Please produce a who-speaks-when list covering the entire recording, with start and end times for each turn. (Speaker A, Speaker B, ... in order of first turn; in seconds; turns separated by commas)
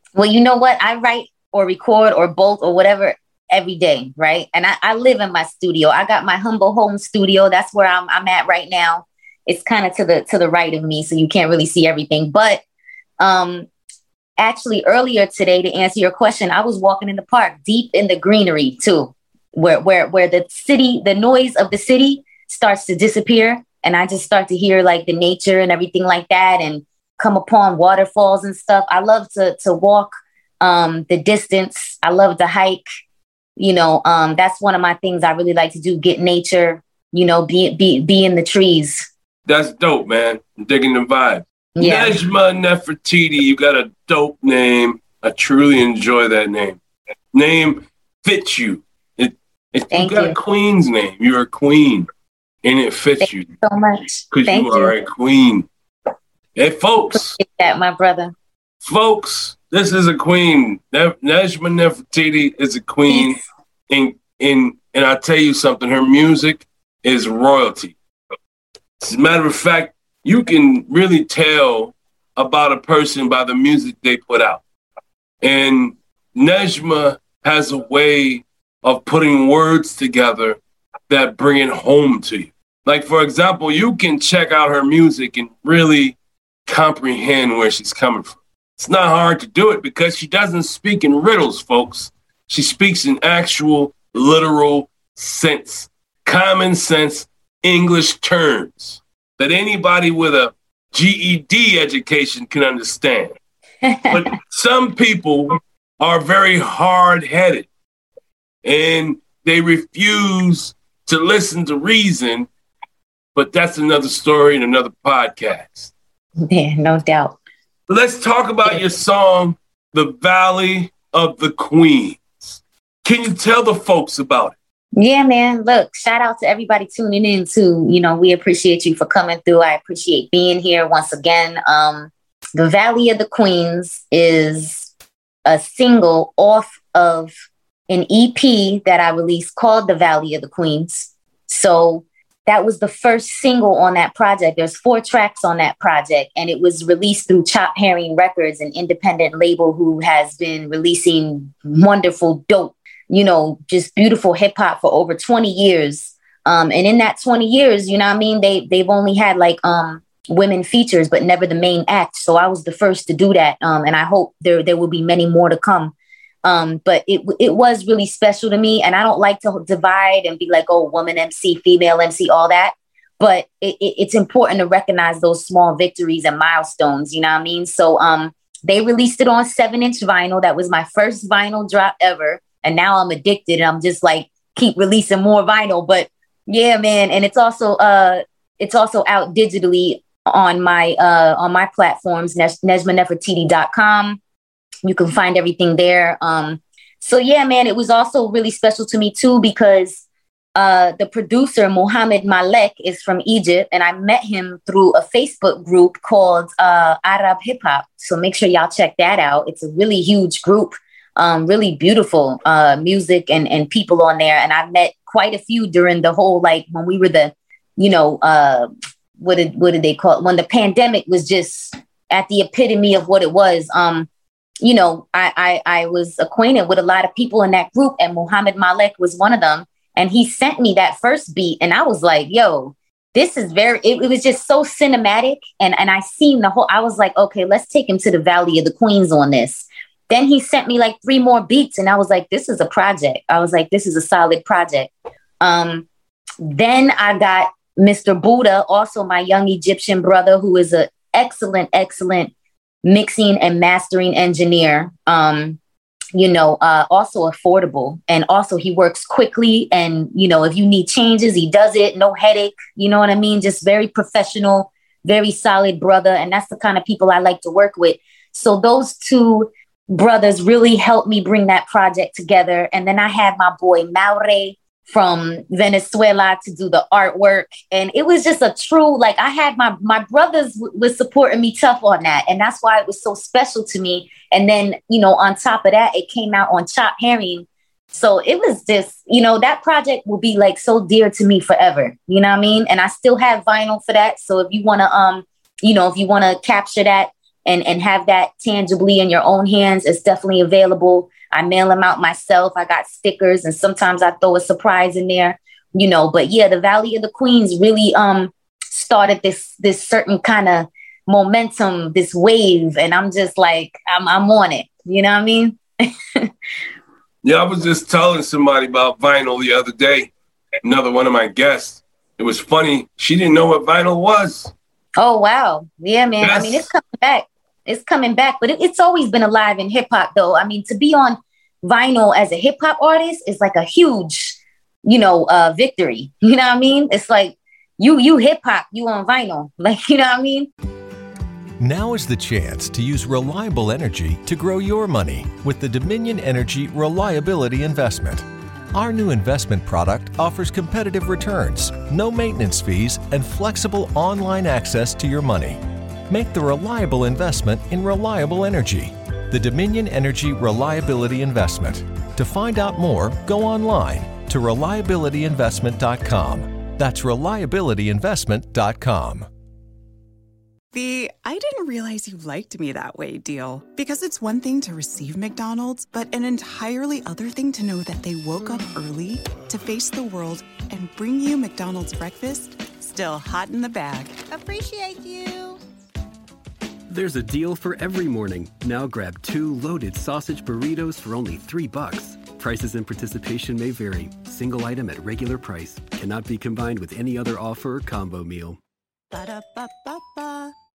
Speaker A: 0.1-12.6, Speaker A: 13.2-13.7, Speaker A: 14.4-32.8, Speaker A: 33.6-39.1, Speaker B: 39.5-46.8, Speaker A: 41.8-42.1, Speaker B: 47.3-52.1, Speaker A: 49.9-50.3, Speaker B: 52.6-53.5, Speaker A: 53.2-54.9, Speaker B: 54.3-55.7, Speaker B: 56.5-57.4, Speaker A: 57.1-58.3, Speaker B: 58.8-63.4, Speaker A: 63.1-63.4, Speaker B: 63.9-67.9, Speaker B: 69.0-74.6, Speaker B: 75.4-80.6, Speaker B: 81.1-86.2, Speaker B: 86.7-103.3, Speaker A: 103.8-104.2, Speaker B: 104.1-107.7, Speaker B: 108.6-112.5, Speaker B: 113.3-115.9, Speaker A: 116.4-117.3, Speaker B: 117.9-124.5, Speaker A: 124.9-134.9, Speaker A: 135.4-137.3, Speaker A: 137.9-165.9, Speaker A: 166.4-194.2, Speaker A: 194.8-200.0, Speaker A: 200.5-218.7, Speaker A: 219.2-224.1, Speaker A: 224.6-244.9, Speaker A: 245.4-245.8, Speaker A: 246.4-252.3, Speaker A: 252.8-255.6, Speaker A: 256.1-316.3, Speaker B: 317.2-320.1, Speaker B: 320.6-324.5, Speaker A: 325.0-340.5, Speaker B: 326.2-326.6, Speaker C: 341.6-369.3, Speaker D: 370.7-385.6, Speaker E: 386.9-398.6, Speaker D: 399.1-400.5